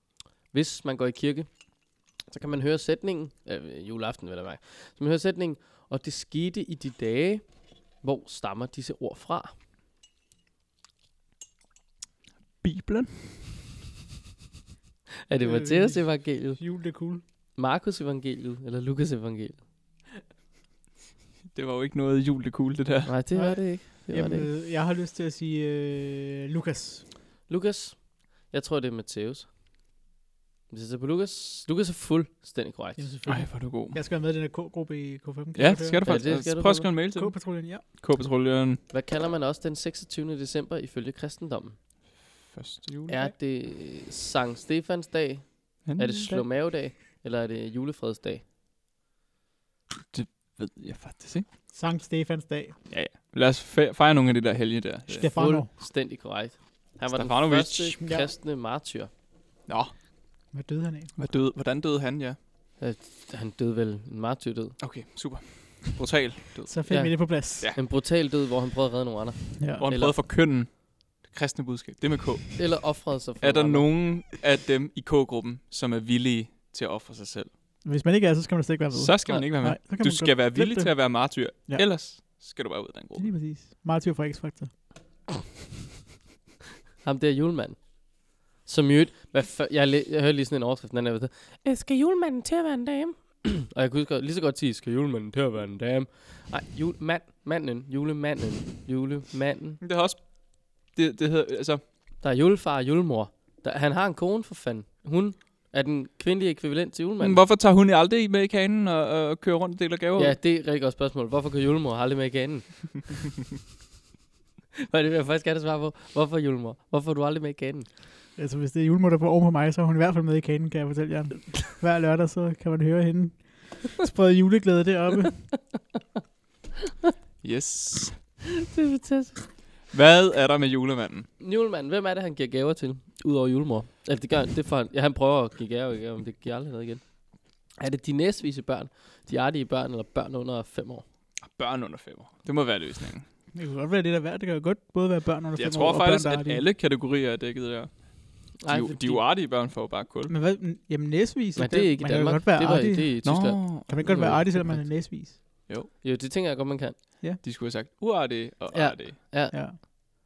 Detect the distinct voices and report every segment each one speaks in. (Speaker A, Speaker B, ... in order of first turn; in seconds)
Speaker A: 0.5-9.5, 15.2-16.6, 17.5-19.7, 23.0-24.5, 27.5-29.5, 30.7-33.1, 36.0-36.9, 38.9-41.8, 43.1-48.4, 55.1-59.1, 62.8-64.8, 66.9-70.2, 72.6-73.9, 87.0-99.8, 102.2-107.4, 110.2-113.1, 114.8-118.0, 128.6-129.5, 131.4-141.0, 148.6-149.3, 151.6-154.8, 155.9-157.0, 158.7-159.9
Speaker B: 12.6-13.8, 21.5-23.2, 33.3-34.0, 35.5-38.8, 42.5-43.3, 45.8-46.5, 50.1-51.5, 52.9-55.3, 57.1-58.0, 59.7-59.9, 61.2-62.4, 64.8-66.8, 69.8-77.5, 78.9-83.3, 99.8-101.8, 107.2-110.3, 127.4-128.2, 129.9-131.3, 141.4-143.2, 145.6-150.3, 153.2-154.8, 157.4-159.2
Speaker C: 15.4-17.2, 23.3-27.0, 33.0-36.0, 37.1-37.8, 51.7-52.8, 55.1-55.7, 58.0-58.3, 60.5-61.1, 66.7-67.7, 69.6-69.8, 77.8-81.9, 83.2-84.7, 118.3-125.6, 143.5-146.6, 150.3-155.4, 159.5-159.8